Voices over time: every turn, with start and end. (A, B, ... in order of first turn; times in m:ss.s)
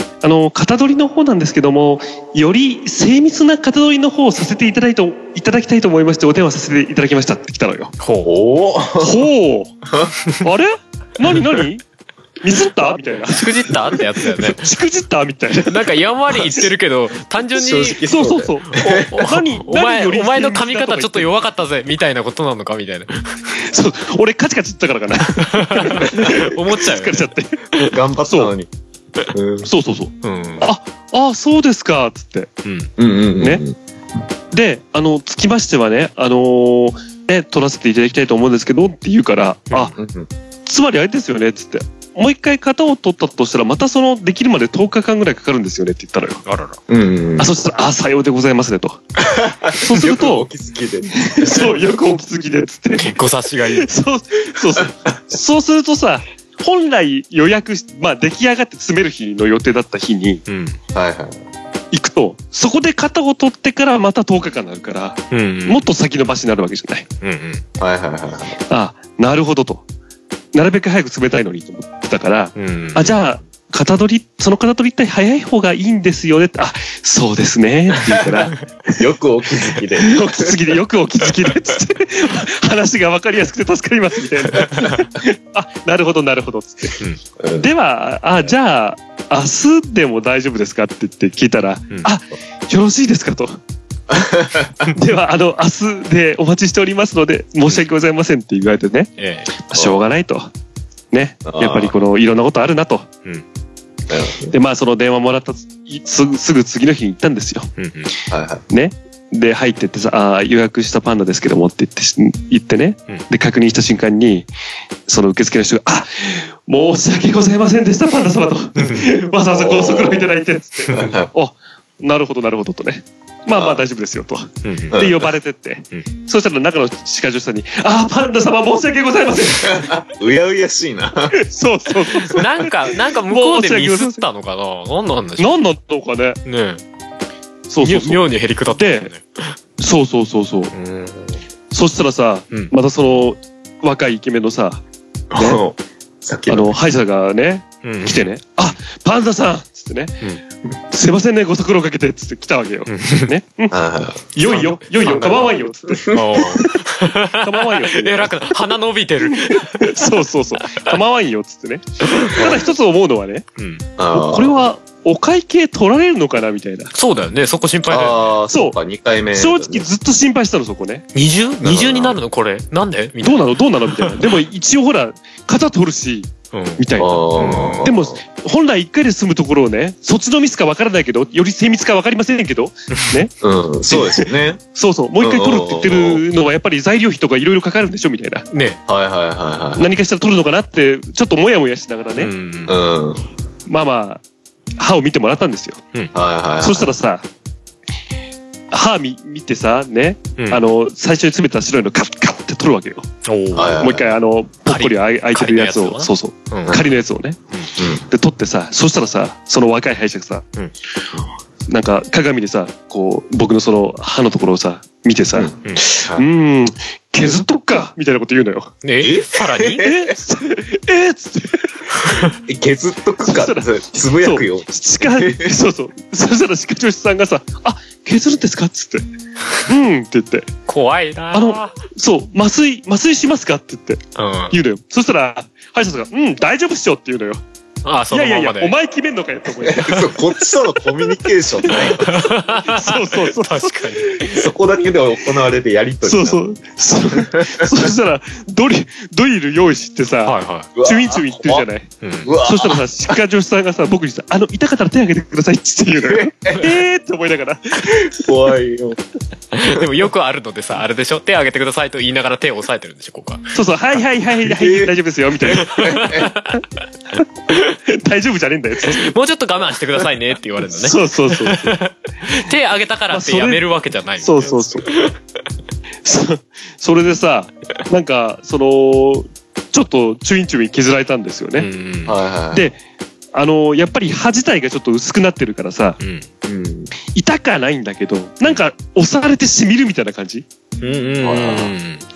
0:00.2-0:07.9 A
0:08.0-0:08.3 B
0:08.2-0:09.3 C
0:09.0-0:09.7 A
0:09.8-0:10.1 C
0:10.4-0:11.8 A
0:12.4-0:15.9 A
0:13.3-0:14.7 B
0:15.7-0:18.0 B
0:17.5-0:19.2 C
0:18.0-0:21.3 A
0:19.1-0:23.5 B
0:23.6-0:27.6 A
0:25.4-0:27.9 B
0:27.8-0:28.7 C
0:29.3-0:29.7 C
0:29.6-0:32.5 A
0:30.2-0:30.7 B
0:32.6-0:32.9 B
0:33.0-0:33.8 C
0:34.5-0:39.9 A
0:39.9-0:40.3 C
0:40.6-0:46.4 A
0:46.4-0:46.8 B
0:46.9-0:47.5 C
0:47.4-0:49.0 A
0:49.2-0:51.8 C
0:49.8-0:50.5 A
0:51.2-1:00.4 A
0:52.9-0:53.9 B
1:00.5-1:00.8 B
1:00.9-1:01.4 C
1:01.9-1:07.0 A
1:05.3-1:05.8 B
1:07.2-1:07.6 B
1:07.8-1:08.6 C
1:08.7-1:09.8 A
1:10.5-1:18.6 A
1:12.6-1:13.1 B
1:18.9-1:20.6 C
1:20.0-1:27.0 A
1:24.7-1:25.0 B
1:27.4-1:27.7 C
1:27.6-1:33.6 A
1:34.1-1:34.9 C
1:34.9-1:40.5 A
1:39.2-1:39.6 B
1:39.7-1:40.0 C
1:41.1-1:43.1 A
1:41.4-1:41.9 C
1:44.1-1:44.5 C
1:44.5-1:47.7 A
1:47.8-1:48.1 B
1:48.3-1:48.6 C
1:48.7-1:54.5 A
1:55.1-2:09.9 A
1:59.5-2:00.3 C
2:00.9-2:01.3 C
2:03.5-2:03.8 C
2:04.6-2:05.0 B
2:04.9-2:05.3 C
2:09.6-2:11.4 C
2:11.3-2:14.2 A
2:12.3-2:15.6 B
2:15.4-2:16.4 A
2:16.4-2:16.8 B
2:17.7-2:19.1 A
2:17.8-2:19.6 B
2:19.8-2:20.7 A
2:20.7-2:21.4 B
2:21.7-2:24.8 A
2:25.3-2:26.7 C
2:25.3-2:25.6 A
2:26.5-2:30.2 A
2:27.8-2:28.3 B
2:30.9-2:33.8 A
2:32.9-2:33.3 B
2:33.7-2:36.2 C
2:34.3-2:38.4 A
2:34.4-2:35.5 B
2:36.1-2:40.0 B
2:39.2-2:43.4 A
2:40.7-2:41.0 B
2:42.1-2:42.5 B
2:42.4-2:42.6 C
2:43.6-2:43.8 B
2:44.0-2:44.6 C
2:44.1-2:46.9 A
2:46.9-2:48.3 B
2:47.9-2:49.9 C
2:49.3-2:51.0 A
2:51.1-2:54.3 B
2:51.6-2:52.2 C
2:53.2-3:03.3 A
2:56.5-2:57.9 B
2:57.0-2:58.2 C
3:03.4-3:04.6 C
3:03.9-3:08.4 A
3:05.2-3:06.2 C
3:08.5-3:08.8 B
3:08.9-3:09.9 C
3:09.8-3:12.3 A
3:12.2-3:12.8 B
3:12.7-3:13.2 C
3:13.7-3:14.2 A
3:14.8-3:15.8 A
3:16.1-3:16.9 C
3:16.6-3:17.2 A
3:18.7-3:23.1 A
3:23.2-3:23.8 B
3:23.5-3:24.1 C
3:23.8-3:27.4 A
3:24.7-3:26.8 B
3:27.8-3:28.0 C
3:28.1-3:30.4 A
3:31.7-3:38.7 A
3:35.3-3:36.2 C
3:38.8-3:39.9 B
3:39.0-3:40.1 C
3:39.8-3:42.2 A
3:42.4-3:45.5 C
3:43.2-3:49.0 A
3:49.6-3:50.5 A
3:50.7-3:51.7 B
3:51.3-3:57.4 A
3:54.1-3:54.5 B
3:57.8-3:58.7 B
3:58.1-4:00.5 A
3:59.6-4:02.3 C
4:01.6-4:02.1 A
4:01.8-4:04.5 B
4:02.6-4:03.8 A
4:04.2-4:06.5 C
4:06.0-4:11.9 A
4:07.2-4:07.8 C
4:10.2-4:10.7 B
4:10.7-4:11.6 C
4:12.0-4:12.3 B
4:12.2-4:12.8 C
4:12.4-4:18.0 A
4:16.0-4:16.7 C
4:17.8-4:19.0 C
4:19.5-4:23.5 B
4:23.5-4:26.3 A
4:24.4-4:24.9 C
4:25.5-4:26.3 C
4:25.5-4:26.6 B
4:27.8-4:29.1 A
4:28.8-4:35.2 B
4:30.7-4:31.8 A
4:33.1-4:33.6 A
4:34.2-4:34.9 A
4:36.0-4:41.7 A
4:41.6-4:42.2 B
4:42.0-4:42.7 C
4:42.5-4:42.8 A
4:43.3-4:46.0 A
4:46.0-4:46.2 B
4:46.4-4:46.9 C
4:47.1-4:50.4 A
4:50.8-4:52.0 B
4:51.2-4:51.7 C